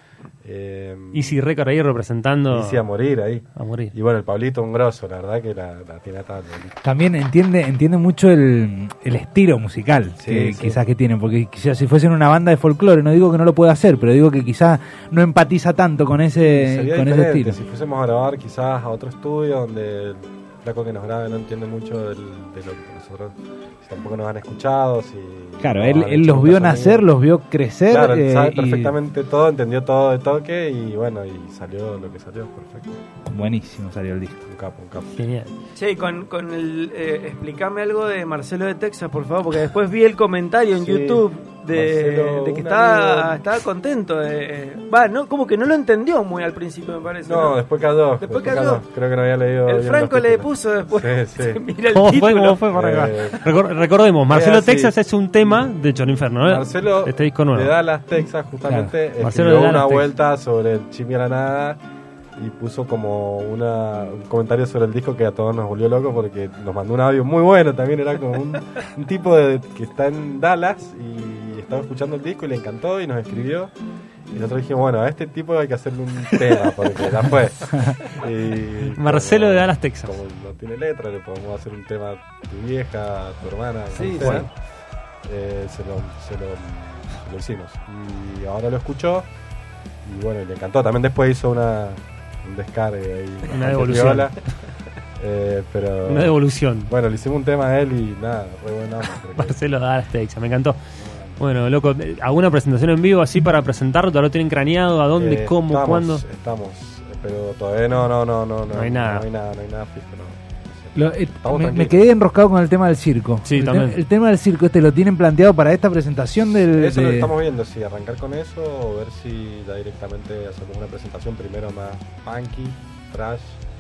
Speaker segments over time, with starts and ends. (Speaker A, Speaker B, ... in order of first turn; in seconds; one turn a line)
Speaker A: 0.4-1.4
Speaker B: 1.1-2.9
Speaker A: 2.5-6.8
Speaker B: 3.5-3.9
Speaker C: 6.8-17.6
Speaker A: 10.2-10.8
Speaker A: 16.4-27.0
Speaker C: 25.6-28.9
Speaker A: 27.9-33.0
Speaker C: 33.3-34.4
Speaker A: 34.4-35.1
Speaker B: 35.1-35.5
Speaker D: 35.8-47.6
Speaker A: 40.8-43.4
Speaker A: 47.2-51.6
Speaker D: 48.2-48.8
Speaker D: 49.6-52.6
Speaker B: 51.9-57.7
Speaker A: 52.7-53.4
Speaker A: 54.3-54.9
Speaker A: 56.4-61.8
Speaker C: 58.7-58.9
Speaker B: 59.2-60.2
Speaker A: 62.4-73.7
Speaker A: 74.3-84.5
Speaker B: 78.9-80.2
Speaker D: 84.0-84.5
Speaker B: 84.0-84.5
Speaker A: 85.2-89.3
Speaker A: 90.0-94.4
Speaker B: 93.5-94.3
Speaker A: 95.2-96.4
Speaker B: 96.0-96.9
Speaker A: 96.9-99.6
Speaker B: 99.3-100.8
Speaker A: 101.0-101.4
Speaker B: 101.4-106.2
Speaker A: 105.2-112.1
Speaker B: 108.7-109.3
Speaker C: 111.0-117.3
Speaker B: 113.4-114.0
Speaker A: 116.7-123.6